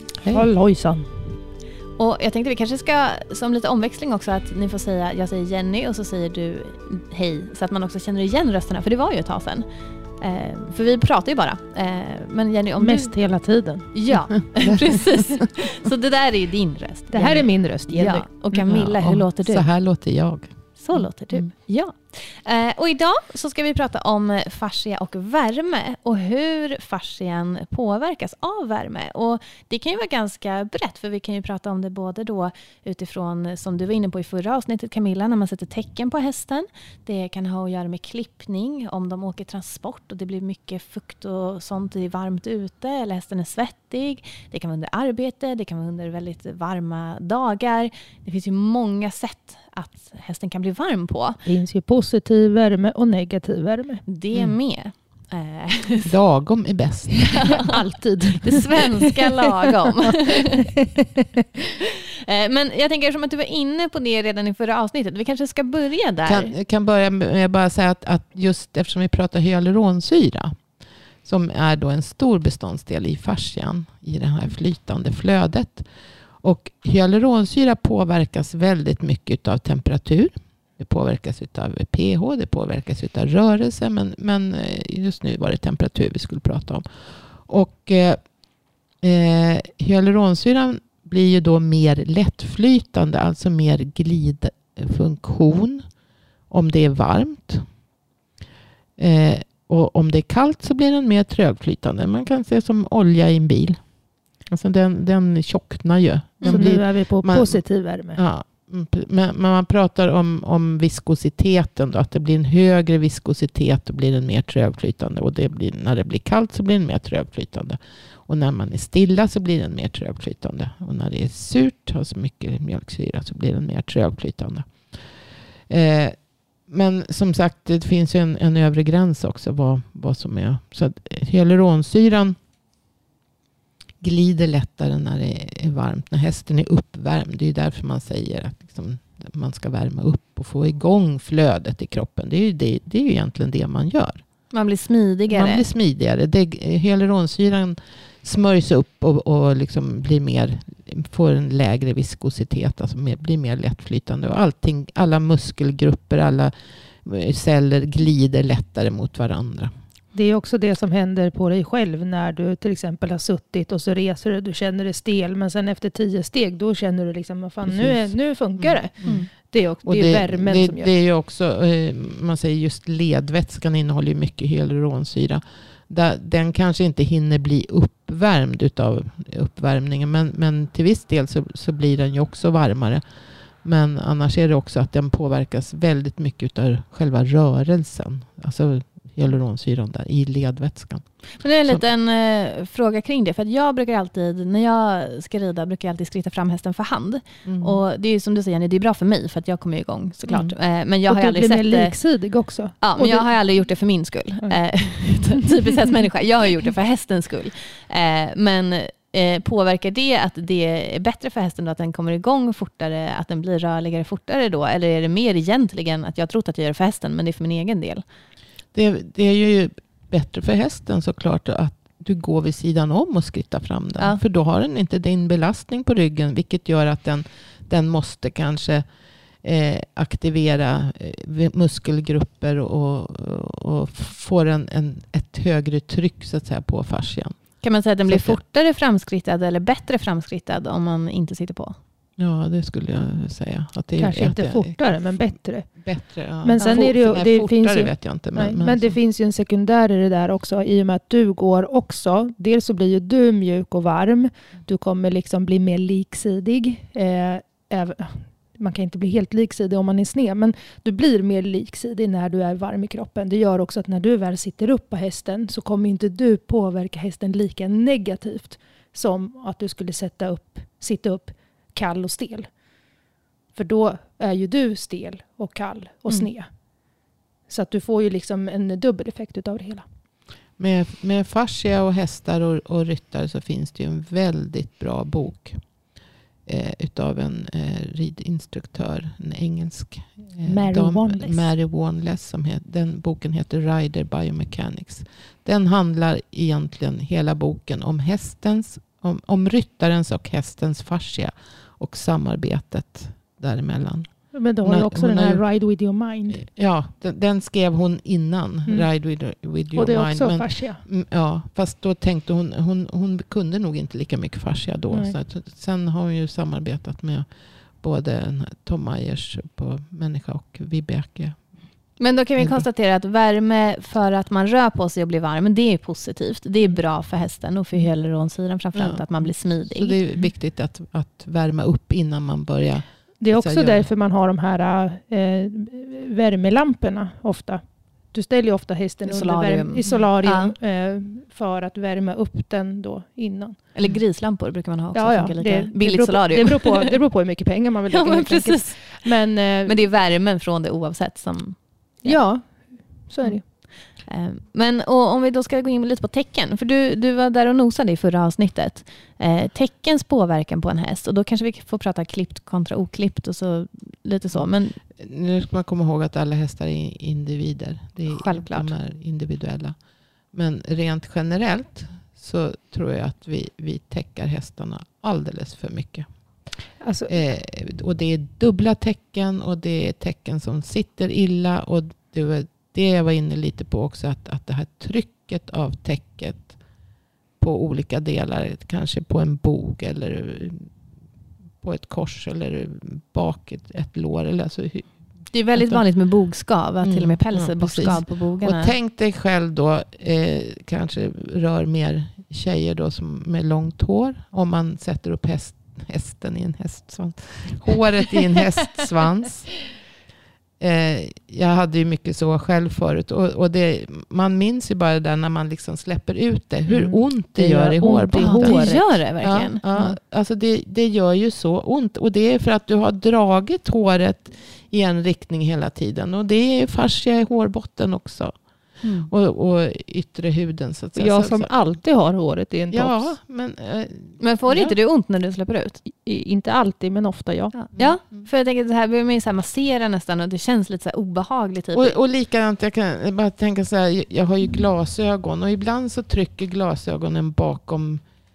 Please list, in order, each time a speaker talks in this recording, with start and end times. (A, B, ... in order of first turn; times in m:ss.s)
0:00.2-0:00.4 A
0:00.3-0:01.1 B
0:02.0-0:09.6 C
0:10.2-0:13.1 C
0:12.8-0:13.9 B
0:13.9-0:19.6 C
0:14.6-0:15.5 A
0:17.1-0:18.7 B
0:18.7-0:21.4 A
0:20.8-0:51.4 C
0:51.4-0:54.0 B
0:54.0-0:56.1 C
0:56.0-0:57.3 A
0:57.3-0:57.8 C
0:57.6-1:01.4 B
0:58.4-1:00.7 C
1:01.8-1:06.5 C
1:06.2-1:10.6 A
1:11.2-1:15.8 A
1:16.4-1:28.2 A
1:29.0-1:35.9 A
1:36.5-1:37.7 A
1:39.0-1:43.8 A
1:44.4-1:47.6 A
1:46.4-1:46.8 C
1:46.5-1:48.2 B
1:48.1-2:04.9 A
2:05.7-2:12.4 A
2:14.0-2:24.2 A
2:24.5-2:25.6 C
2:25.3-2:36.5 A
2:37.0-2:39.7 A
2:40.1-2:50.9 B
2:47.6-2:49.2 A
2:49.0-2:49.3 C
2:49.8-3:03.0 A
3:03.6-3:11.0 A
3:11.4-3:21.9 C
3:17.4-3:17.8 A
3:20.3-3:20.5 A
3:21.1-3:23.3 B
3:22.8-3:38.0 C
3:38.7-3:48.8 A
3:49.4-3:57.4 A
3:57.6-4:01.8 C
3:58.1-3:58.4 A
4:02.2-4:05.0 A
4:04.0-4:05.8 B
4:05.8-4:09.0 A
4:06.4-4:32.5 B
4:06.6-4:06.9 C
4:33.5-4:36.5 B
4:37.5-4:39.8 B
4:40.6-4:45.6 A
4:46.4-5:05.4 A
4:50.4-4:51.5 B
5:04.3-5:06.4 B
5:06.3-5:17.3 A
5:09.7-5:10.8 B
5:17.8-5:21.4 A
5:22.0-5:30.0 C
5:22.4-5:22.6 A
5:28.7-5:29.0 A
5:29.7-5:33.9 A
5:33.2-5:37.6 B
5:38.1-5:43.6 B
5:39.0-5:40.5 C
5:43.7-5:47.0 C
5:44.9-5:49.8 B
5:47.9-5:49.0 C
5:49.6-5:52.2 C
5:52.0-5:53.4 B
5:54.1-6:04.8 C
6:05.0-6:09.8 A
6:08.1-6:08.7 C
6:10.3-6:16.1 A
6:16.8-6:17.1 B
6:17.1-6:26.5 A
6:27.4-6:30.7 A
6:31.6-6:34.9 A
6:35.3-6:38.8 C
6:35.5-6:35.8 A
6:36.8-6:49.5 A
6:50.6-7:08.4 A
6:57.3-6:58.9 B
6:58.1-7:00.0 C
7:08.8-7:09.1 C
7:09.1-7:11.5 A
7:11.0-7:13.1 B
7:12.7-7:14.7 A
7:14.2-7:15.8 C
7:15.9-7:17.5 B
7:17.5-7:22.0 C
7:17.8-7:18.3 A
7:21.7-7:28.0 A